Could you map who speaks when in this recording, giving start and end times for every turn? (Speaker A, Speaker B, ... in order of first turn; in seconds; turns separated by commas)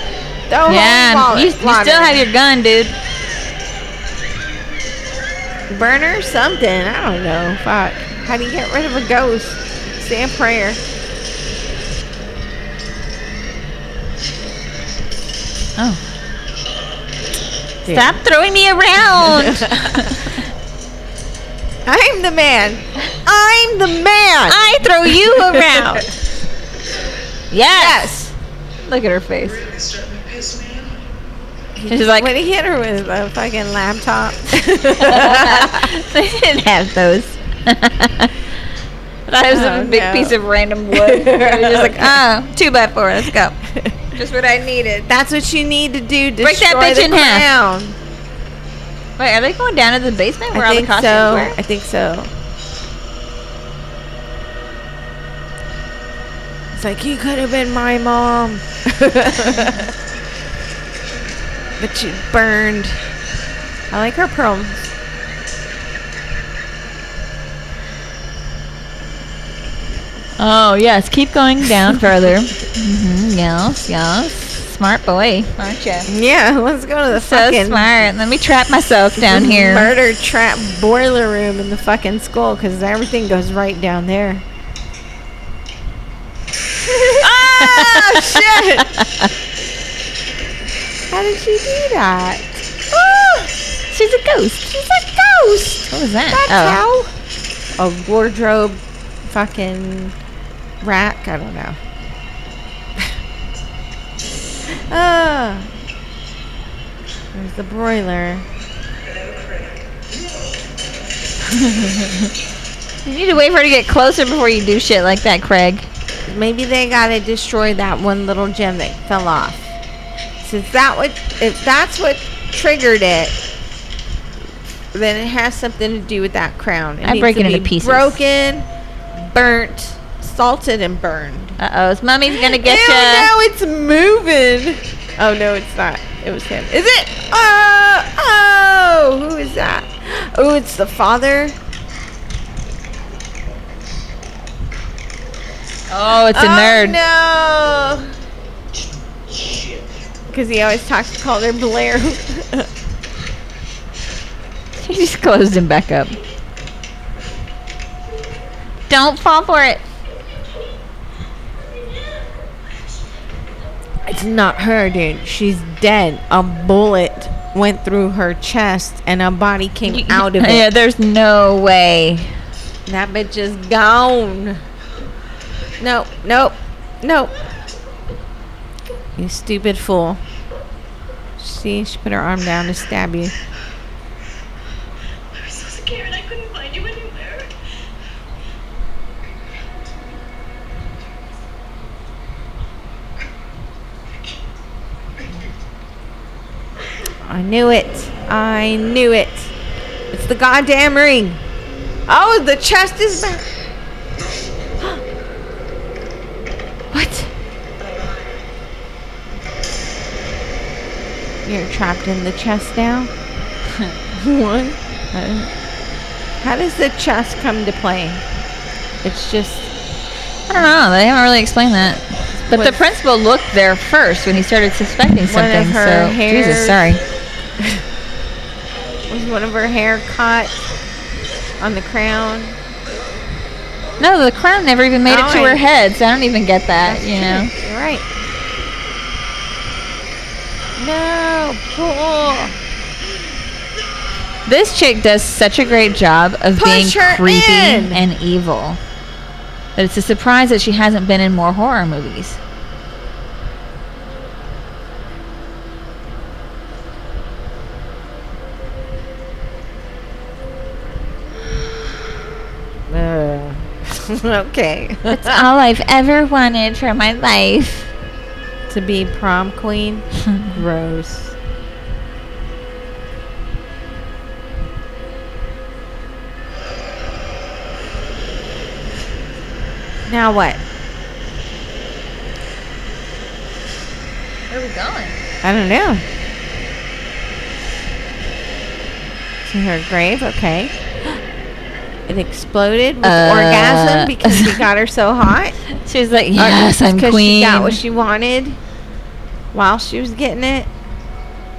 Speaker A: 0.5-2.2, Speaker B: 0.7-2.9, Speaker A: 5.7-10.8, Speaker A: 17.8-18.2, Speaker B: 17.9-20.3, Speaker A: 19.2-20.1, Speaker A: 21.8-26.2, Speaker B: 24.5-26.0, Speaker B: 27.5-28.1, Speaker A: 27.7-28.3, Speaker B: 28.8-29.6, Speaker C: 29.5-31.0, Speaker A: 31.8-35.9, Speaker B: 31.9-32.3, Speaker B: 35.0-38.4, Speaker B: 39.3-43.5, Speaker A: 39.5-40.4, Speaker A: 40.9-42.2, Speaker A: 43.6-44.0, Speaker B: 44.1-45.1, Speaker A: 45.0-48.0, Speaker B: 46.4-47.5, Speaker B: 49.2-51.6, Speaker A: 50.5-52.3, Speaker A: 56.7-59.9, Speaker A: 61.8-63.0, Speaker A: 63.9-64.9, Speaker B: 70.4-76.1, Speaker A: 76.1-78.1, Speaker B: 77.1-79.9, Speaker A: 79.2-84.4, Speaker A: 86.8-88.9, Speaker B: 87.2-89.3, Speaker A: 91.1-93.5, Speaker B: 93.9-94.7, Speaker A: 94.6-97.1, Speaker B: 95.9-96.8, Speaker A: 97.8-100.1, Speaker A: 100.8-101.8, Speaker A: 104.7-105.7, Speaker A: 107.3-108.4, Speaker B: 113.0-115.9, Speaker A: 116.3-119.7, Speaker A: 120.4-123.4, Speaker A: 124.9-128.7, Speaker B: 127.0-128.2, Speaker A: 129.3-131.6, Speaker B: 131.6-133.3, Speaker A: 132.3-141.6, Speaker B: 145.9-147.0, Speaker A: 146.3-148.1, Speaker C: 149.3-149.9, Speaker A: 150.3-152.7, Speaker B: 154.8-156.2, Speaker B: 158.9-159.8, Speaker A: 164.1-170.7, Speaker B: 169.9-172.4, Speaker A: 172.8-174.6, Speaker A: 175.8-177.3, Speaker A: 179.2-180.2, Speaker A: 181.4-183.3, Speaker D: 185.3-187.5, Speaker A: 197.2-199.5, Speaker A: 200.1-201.4, Speaker A: 202.1-203.4, Speaker A: 206.9-207.3, Speaker A: 211.4-213.1, Speaker A: 214.1-215.5, Speaker A: 216.4-218.2, Speaker A: 219.0-219.7, Speaker B: 220.5-227.0, Speaker A: 222.4-222.8, Speaker A: 225.2-226.9, Speaker A: 229.1-230.6, Speaker A: 231.6-232.6, Speaker B: 234.0-237.5, Speaker A: 235.1-235.6, Speaker A: 236.8-238.1, Speaker A: 240.8-242.5, Speaker B: 244.4-248.8, Speaker A: 246.5-248.0, Speaker B: 249.8-252.4, Speaker A: 262.9-265.4, Speaker B: 265.1-267.9, Speaker A: 268.7-271.3, Speaker A: 280.1-280.6, Speaker B: 284.5-285.2, Speaker A: 285.4-286.0, Speaker A: 289.4-290.7, Speaker A: 292.1-295.6, Speaker B: 293.0-294.6, Speaker B: 295.7-297.8, Speaker A: 296.4-298.6, Speaker A: 299.5-300.7